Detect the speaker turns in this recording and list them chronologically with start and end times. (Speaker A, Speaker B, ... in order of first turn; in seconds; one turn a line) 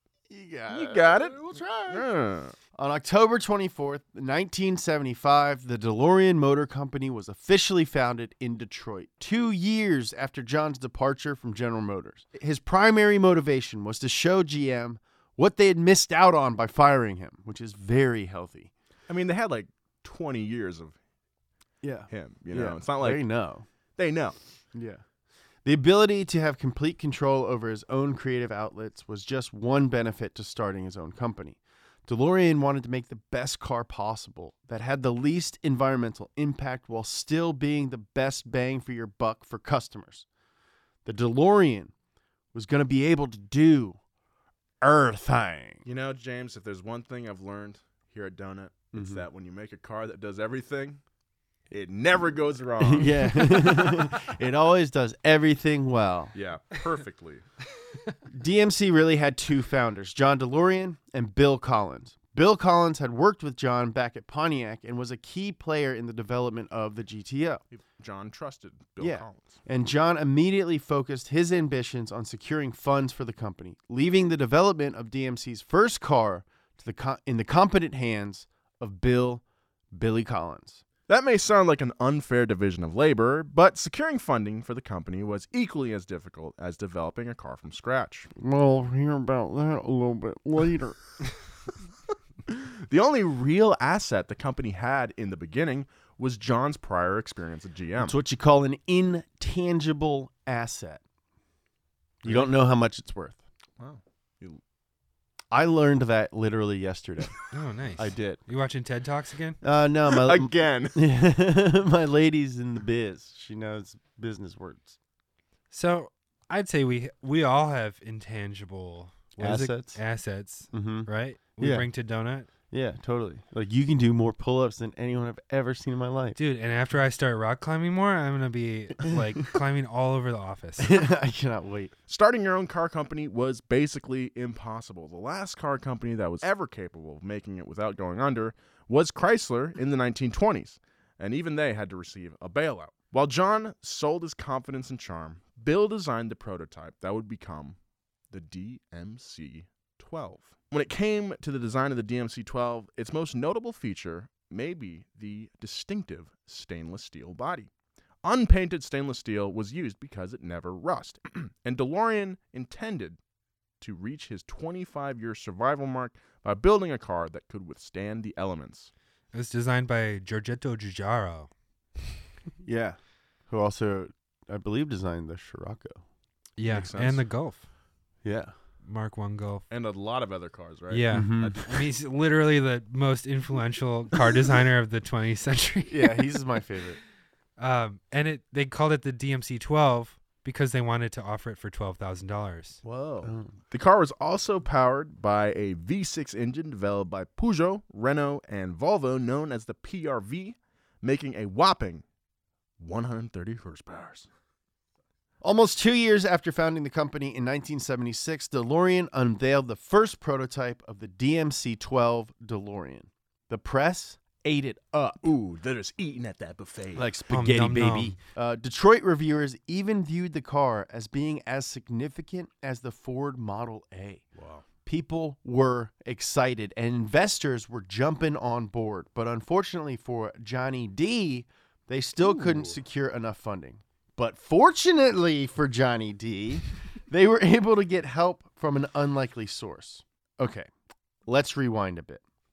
Speaker A: 0.3-2.1
Speaker B: 0.7-2.5
Speaker A: 2.8-18.7
Speaker B: 19.1-21.0
Speaker A: 21.8-23.6
Speaker B: 22.1-23.2
Speaker B: 24.0-24.4
Speaker A: 24.7-25.0
Speaker A: 25.6-40.3
Speaker A: 41.0-41.9
Speaker A: 42.5-44.0
Speaker A: 44.8-45.8
Speaker B: 45.9-51.0
Speaker A: 48.9-49.3
Speaker B: 51.7-53.9
Speaker A: 52.8-56.3
Speaker B: 56.4-57.4
Speaker A: 58.3-67.6
Speaker B: 67.7-69.6
Speaker A: 69.0-80.8
Speaker B: 81.1-88.3
Speaker A: 88.4-91.0
Speaker B: 92.5-98.2
Speaker A: 98.0-101.0
Speaker A: 102.2-103.4
Speaker B: 102.2-102.5
Speaker B: 103.8-104.6
Speaker A: 105.5-107.4
Speaker C: 107.5-109.6
Speaker A: 108.0-108.4
Speaker A: 109.6-115.0
Speaker B: 110.1-111.0
Speaker C: 115.7-122.5
Speaker A: 119.4-120.0
Speaker A: 120.7-121.9
Speaker A: 122.7-126.4
Speaker C: 126.4-131.0
Speaker A: 130.8-131.9
Speaker B: 132.1-147.8
Speaker B: 148.3-157.7
Speaker B: 158.2-163.2
Speaker B: 163.8-168.9
Speaker C: 169.3-171.5
Speaker A: 172.6-176.0
Speaker C: 176.6-177.6
Speaker B: 176.6-177.2
Speaker A: 178.2-178.5
Speaker C: 178.8-179.7
Speaker B: 179.7-181.9
Speaker C: 180.9-186.3
Speaker A: 181.1-181.6
Speaker A: 185.9-187.0
Speaker C: 187.6-192.8
Speaker B: 192.8-202.0
Speaker A: 193.2-193.5
Speaker B: 202.8-204.3
Speaker A: 205.4-215.3
Speaker B: 215.2-217.1
Speaker A: 216.9-224.2
Speaker C: 217.3-218.2
Speaker B: 224.4-224.6
Speaker A: 224.8-240.7
Speaker B: 232.4-232.7
Speaker A: 241.3-242.2